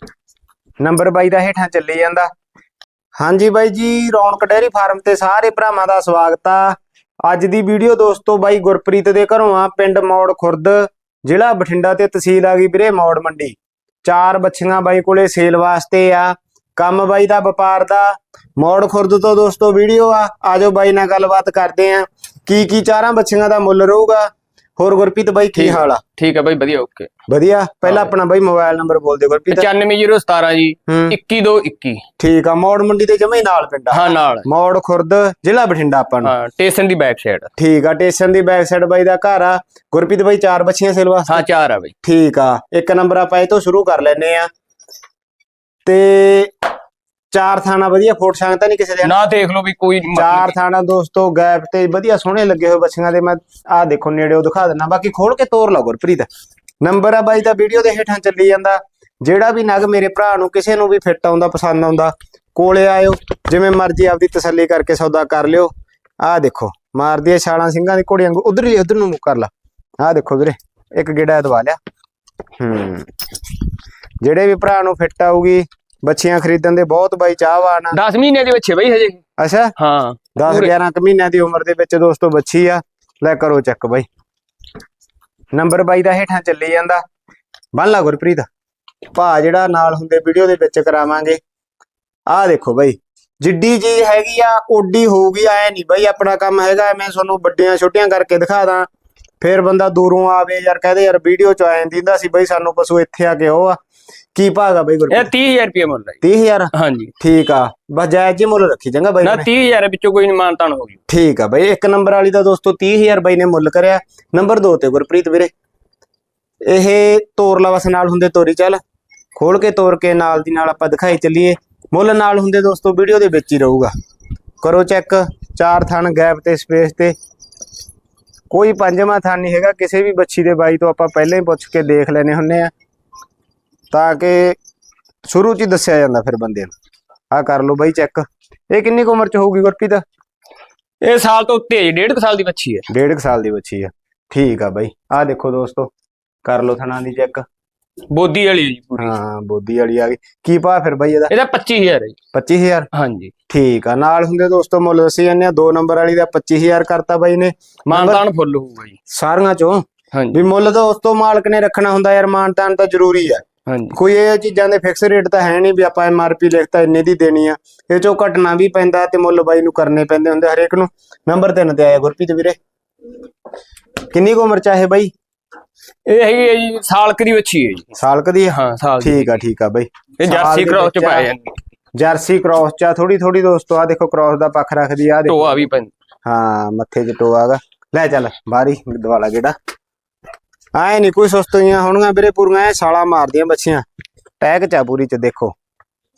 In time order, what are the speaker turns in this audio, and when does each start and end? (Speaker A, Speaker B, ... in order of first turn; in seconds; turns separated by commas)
Speaker A: 0.8-2.3, Speaker A: 3.2-26.0, Speaker B: 25.5-27.1, Speaker A: 27.3-29.7, Speaker B: 29.5-32.0, Speaker A: 30.9-31.1, Speaker A: 32.2-36.3, Speaker B: 33.9-34.5, Speaker B: 36.2-37.5, Speaker A: 37.6-41.5, Speaker B: 41.3-41.9, Speaker A: 42.0-44.5, Speaker A: 45.9-46.5, Speaker A: 47.3-49.2, Speaker B: 49.0-50.5, Speaker A: 50.1-56.3, Speaker A: 56.8-71.8, Speaker A: 72.6-73.1, Speaker A: 74.2-78.0, Speaker B: 77.9-79.2, Speaker A: 79.4-79.7, Speaker B: 79.8-80.7, Speaker A: 80.3-84.0, Speaker A: 85.5-87.0, Speaker A: 87.7-88.5, Speaker A: 89.1-91.4, Speaker A: 92.3-98.9, Speaker A: 99.4-103.8, Speaker A: 104.3-105.3, Speaker B: 105.1-106.2, Speaker A: 106.2-109.5, Speaker B: 106.7-107.1, Speaker B: 109.2-111.0, Speaker A: 111.1-115.5, Speaker A: 116.7-118.8, Speaker A: 119.3-123.9, Speaker A: 124.6-127.1, Speaker A: 128.5-132.7, Speaker A: 133.9-134.6, Speaker A: 135.2-136.7, Speaker A: 137.3-140.0, Speaker B: 141.0-142.8, Speaker A: 142.9-145.9, Speaker A: 146.4-147.4, Speaker B: 148.1-149.1, Speaker A: 149.0-151.3, Speaker B: 151.3-152.2, Speaker A: 152.3-152.9, Speaker B: 152.9-153.3, Speaker A: 153.5-158.2, Speaker B: 157.9-159.0, Speaker A: 159.1-172.6, Speaker B: 160.1-160.4, Speaker B: 163.7-163.9, Speaker A: 174.1-175.1, Speaker B: 176.1-177.9, Speaker A: 177.9-181.3, Speaker B: 178.5-179.3, Speaker B: 180.2-181.5, Speaker A: 182.0-185.6, Speaker B: 185.2-185.9, Speaker A: 186.2-189.5, Speaker A: 190.7-193.8, Speaker A: 194.4-195.5